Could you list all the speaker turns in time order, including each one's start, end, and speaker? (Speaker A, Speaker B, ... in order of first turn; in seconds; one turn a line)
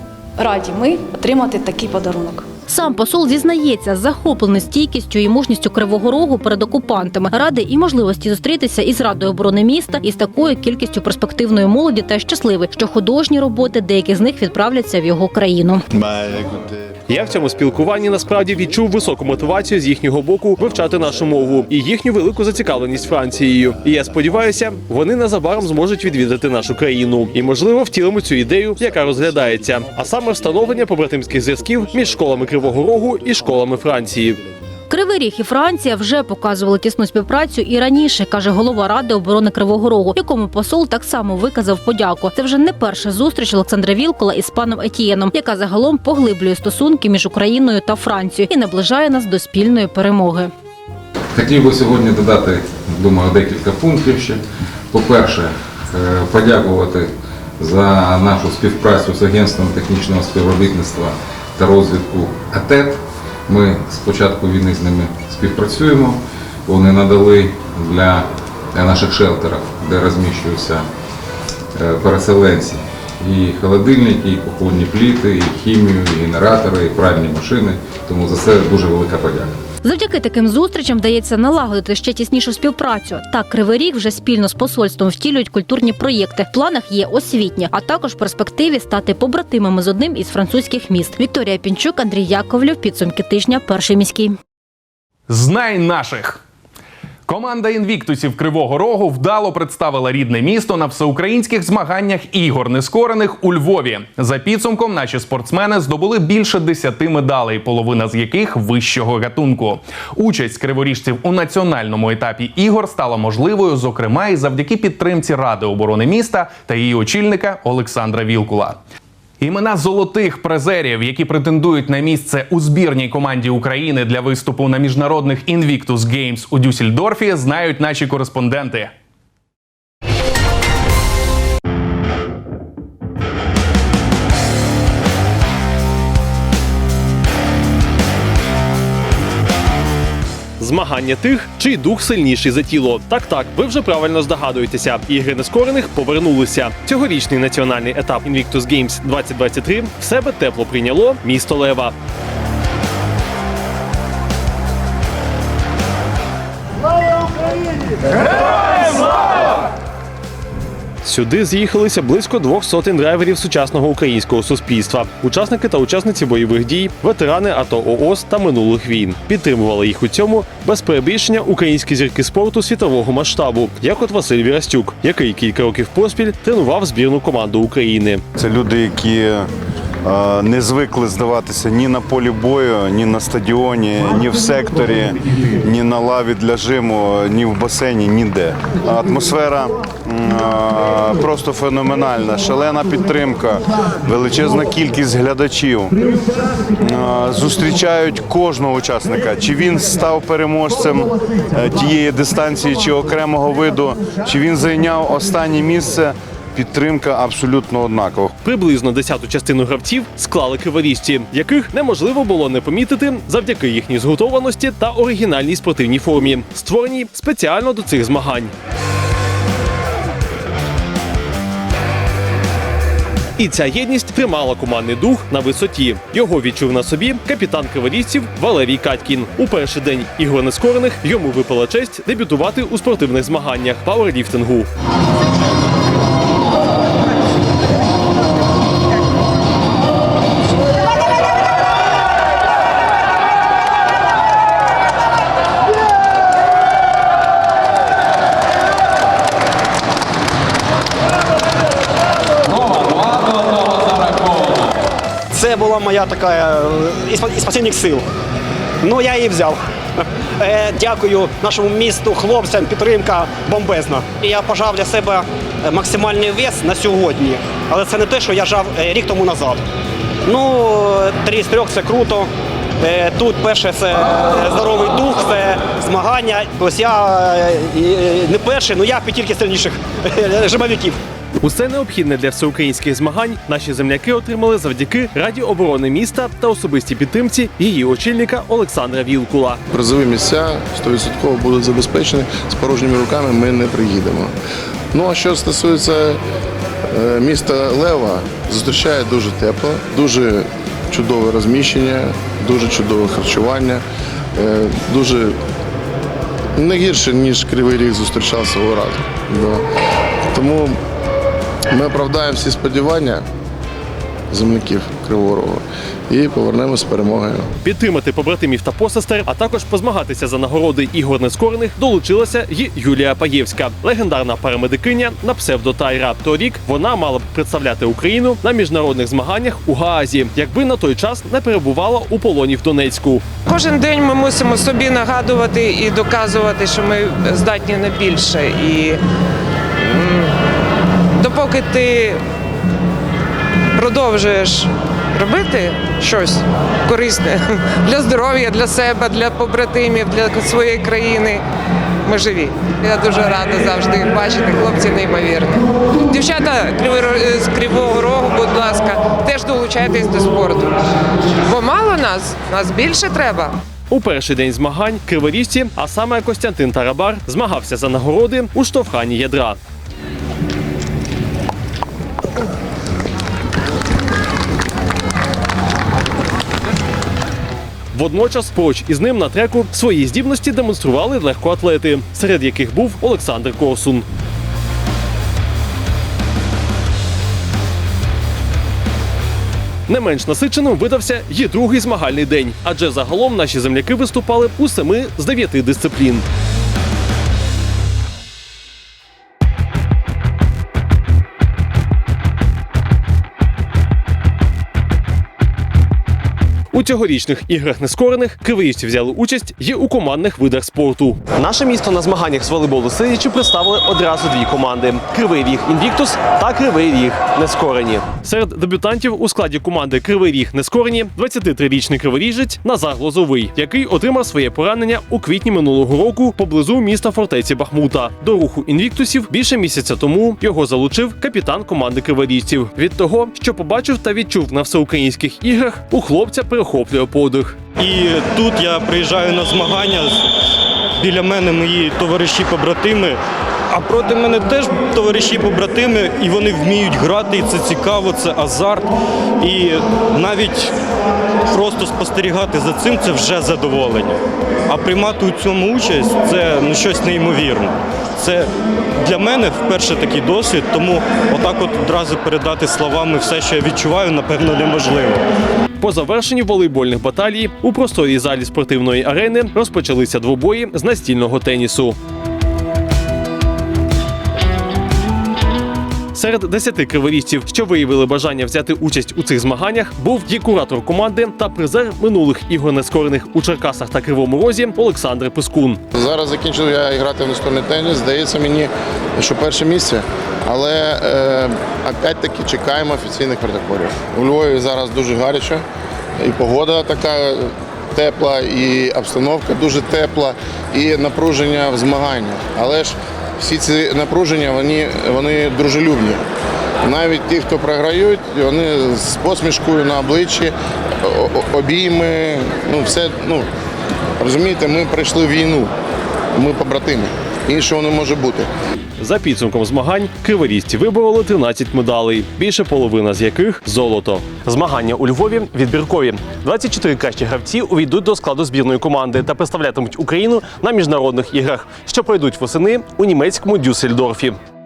Speaker A: 0.4-2.5
Speaker B: 2.7-15.8
Speaker C: 15.9-16.7
Speaker D: 17.1-34.4
Speaker B: 34.9-50.5
Speaker E: 51.3-70.9
Speaker E: 71.8-79.6
Speaker B: 79.8-94.4
Speaker F: 95.3-96.4
Speaker F: 97.3-118.8
Speaker F: 119.4-128.9
Speaker D: 140.6-151.9
Speaker D: 161.0-178.2
Speaker C: 178.3-179.5
Speaker C: 180.0-196.0
Speaker C: 196.8-208.3
Speaker D: 208.4-218.5
Speaker D: 223.4-234.7
Speaker G: 255.3-258.1
Speaker G: 258.8-259.6
Speaker G: 260.4-269.6
Speaker G: 270.3-272.3
Speaker G: 272.8-281.0
Speaker D: 281.4-289.6
Speaker H: 289.7-294.3
Speaker H: 294.9-296.2
Speaker H: 296.9-303.8
Speaker H: 304.4-305.4
Speaker H: 306.6-309.6
Speaker H: 310.3-310.8
Speaker H: 311.7-313.2
Speaker H: 314.3-317.5
Speaker D: 317.6-333.2
Speaker I: 333.5-339.0
Speaker I: 339.8-340.4
Speaker I: 341.2-342.2
Speaker I: 343.8-351.4
Speaker I: 352.1-360.9
Speaker I: 361.4-363.6
Speaker D: 363.9-369.6
Speaker D: 377.9-384.1
Speaker D: 389.9-396.2
Speaker D: 406.7-437.6
Speaker J: 437.8-440.2
Speaker J: 441.0-443.2
Speaker J: 443.7-450.7
Speaker J: 451.5-465.2
Speaker D: 465.8-472.0
Speaker D: 476.1-485.8
Speaker H: 485.9-495.6
Speaker H: 496.2-506.2
Speaker H: 506.8-513.5
Speaker H: 514.2-515.7
Speaker H: 516.4-518.5
Speaker D: 519.0-534.4